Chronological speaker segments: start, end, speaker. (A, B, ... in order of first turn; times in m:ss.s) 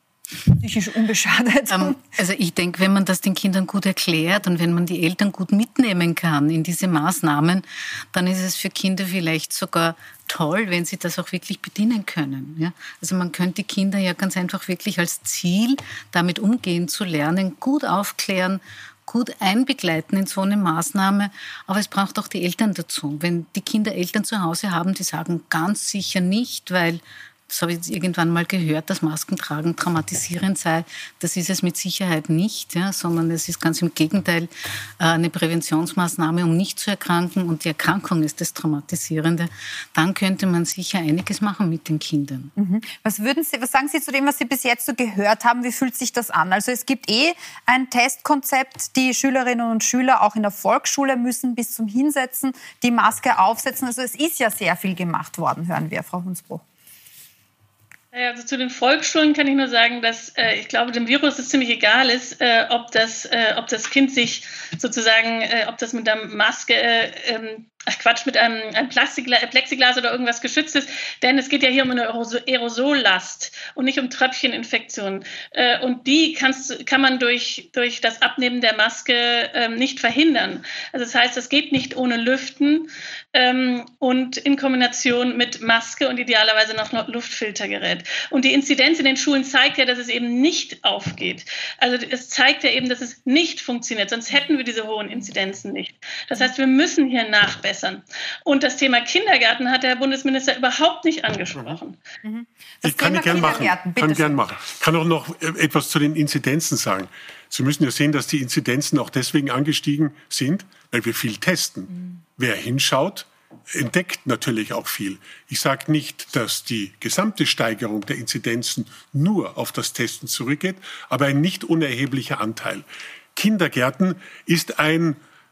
0:00.5-0:02.0 A
0:01.7-0:42.5 B
0:42.6-0:56.6 A
0:58.1-1:42.0 C
1:42.2-1:44.4 A
1:42.8-2:05.2 D